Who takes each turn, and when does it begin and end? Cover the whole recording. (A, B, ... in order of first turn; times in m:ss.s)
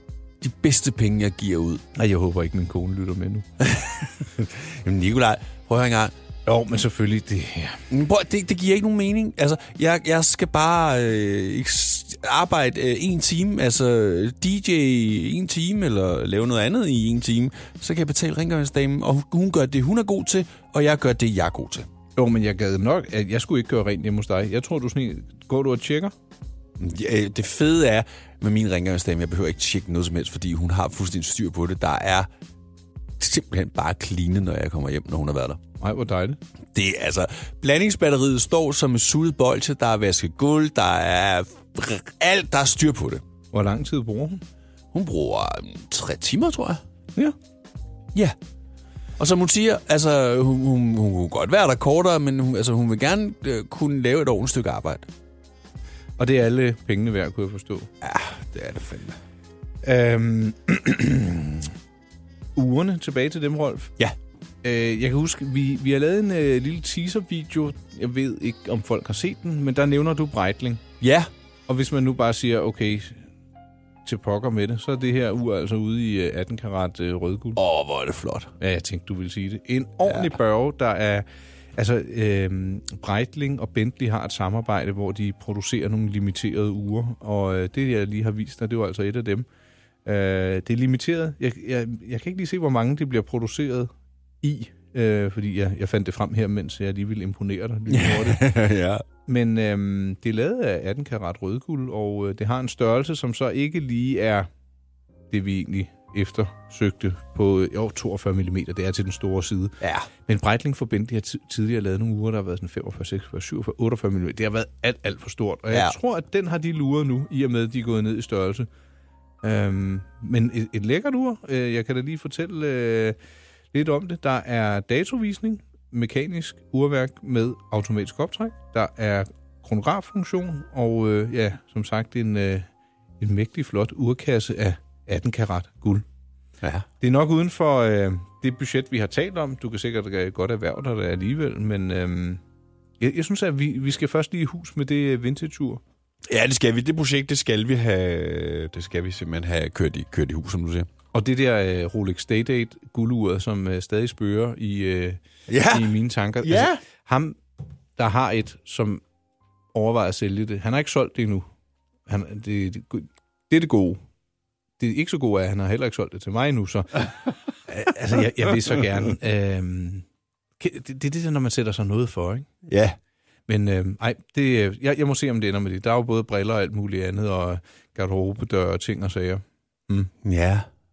0:00.4-0:01.8 A
0:02.0-0:03.5 B
0:03.6-0:06.1 A
0:06.5-0:07.8 B
0:07.9-0:21.9 A
0:22.2-0:26.1 B
0:26.8-0:32.3 A
0:33.2-0:35.6 A
0:35.8-0:36.4 B
0:36.7-0:43.2 A
0:43.5-0:44.4 B
0:44.9-0:46.8 A
0:49.2-0:55.1 A
0:56.2-0:57.9 B
0:58.0-0:59.2 A
0:59.8-1:01.7 B
1:02.6-1:03.9 B
1:04.6-1:10.8 B
1:11.0-1:11.3 A
1:11.7-1:13.3 B
1:14.0-1:17.6 B
1:17.6-1:18.5 A
1:18.6-1:29.4 B
1:20.0-1:20.3 A
1:30.1-1:33.9 B
1:34.4-1:38.5 B
1:37.9-1:39.0 A
1:39.3-1:44.5 B
1:45.3-1:58.7 B
1:49.8-1:50.1 A
1:55.7-1:56.0 A
1:59.4-2:03.2 B
2:03.7-2:12.7 B
2:13.2-2:16.0 B
2:17.0-2:22.4 B
2:23.0-2:25.8 B
2:26.3-2:30.9 A
2:31.1-2:37.4 B
2:35.5-2:36.8 A
2:38.0-2:39.0 B
2:39.7-2:41.5 B
2:42.1-2:44.0 B
2:44.8-2:47.1 B
2:47.7-2:50.0 B
2:50.6-2:52.5 B
2:52.7-2:53.0 A
2:53.5-3:00.1 B
3:00.2-3:00.7 A